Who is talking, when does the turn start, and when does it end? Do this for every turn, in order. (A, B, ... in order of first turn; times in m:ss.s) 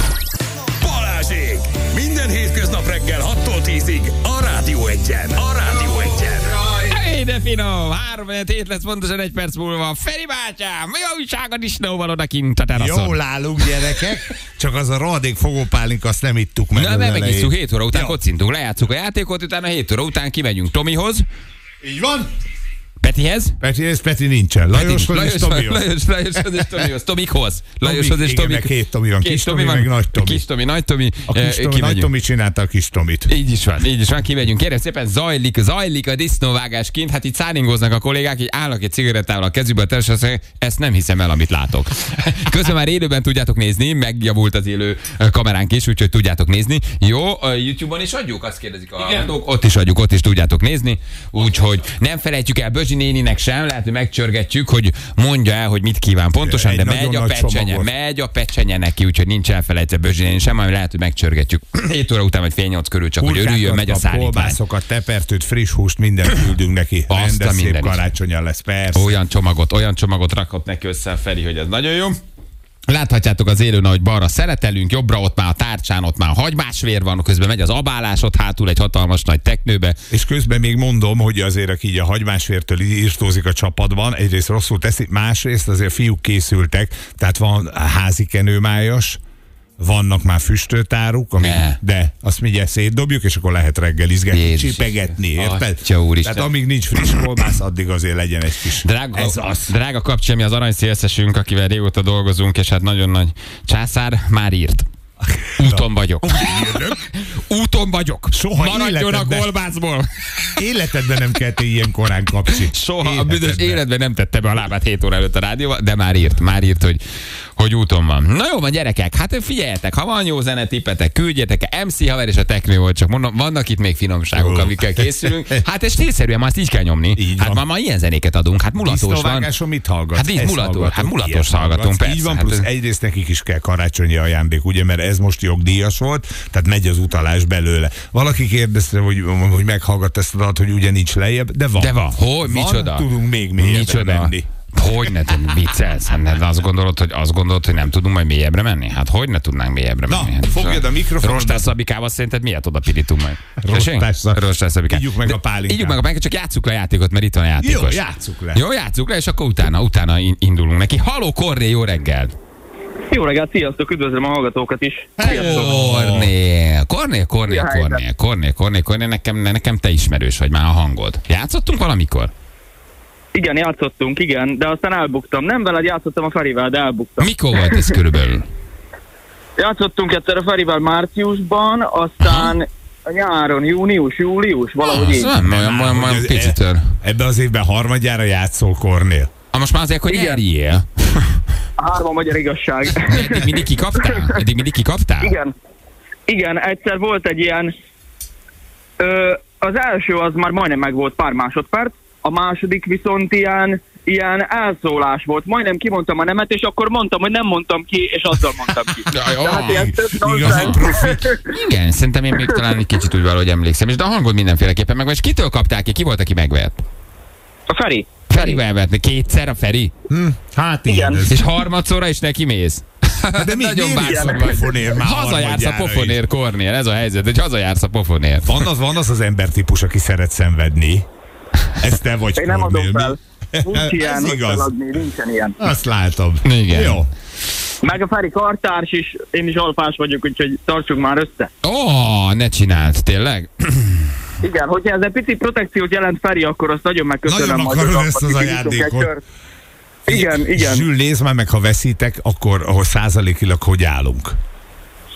0:00.8-0:06.6 A
0:06.7-0:14.0 B
0:12.7-0:18.2 C
0:16.7-0:21.2 B
0:21.8-0:22.3 C
0:23.0-0:23.6 B
0:23.6-0:26.8 C
0:24.7-0:32.1 B
0:27.8-0:30.4 C
0:31.3-0:33.3 C
0:33.3-1:04.6 B
0:56.4-0:57.9 C
1:03.2-1:09.2 C
1:07.1-1:08.0 B
1:08.9-1:12.2 B
1:12.9-1:20.0 B
1:20.1-1:29.2 C
1:29.8-1:39.7 C
1:31.4-1:31.8 B
1:34.3-1:36.5 B
1:38.8-1:44.9 B
1:45.4-1:47.0 C
1:45.6-1:50.6 B
1:48.3-1:49.5 C
1:50.6-1:53.8 C
1:52.6-1:57.0 B
1:57.6-2:09.5 B
2:04.3-2:05.6 C
2:07.2-2:07.6 C
2:08.8-2:24.5 C
2:10.1-2:12.7 B
2:21.8-2:38.0 B
2:30.1-2:31.7 C
2:33.6-2:36.0 C
2:37.6-2:38.6 C
2:38.5-2:42.4 B
2:43.1-2:45.6 D
2:45.2-2:46.3 C
2:45.2-2:52.3 B
2:47.5-2:48.0 D
2:53.3-2:57.9 D
2:57.2-2:58.5 B
2:59.6-3:05.3 D
3:02.2-3:02.5 B
3:04.8-3:06.9 B
3:05.3-3:09.3 C
3:09.5-3:11.4 B
3:10.1-3:10.4 D
3:11.8-3:14.4 D
3:13.0-3:15.3 B
3:15.2-3:15.5 D
3:16.3-3:17.7 D
3:19.0-3:31.4 D
3:29.1-3:30.8 B
3:29.7-3:31.4 C
3:31.4-3:36.8 B
3:37.7-3:38.6 D
3:38.3-3:39.9 B
3:40.1-3:41.5 C
3:40.9-3:41.2 D
3:41.3-3:48.5 B
3:43.3-3:46.2 C
3:44.0-3:44.4 D
3:48.4-3:51.1 C
3:51.8-3:54.7 C
3:52.4-3:55.6 D
3:55.6-3:57.1 C
3:56.4-3:57.0 B
3:57.8-4:01.5 D
4:01.6-4:04.1 B
4:04.4-4:09.2 D
4:07.2-4:09.1 C
4:10.1-4:10.8 D
4:10.1-4:14.4 C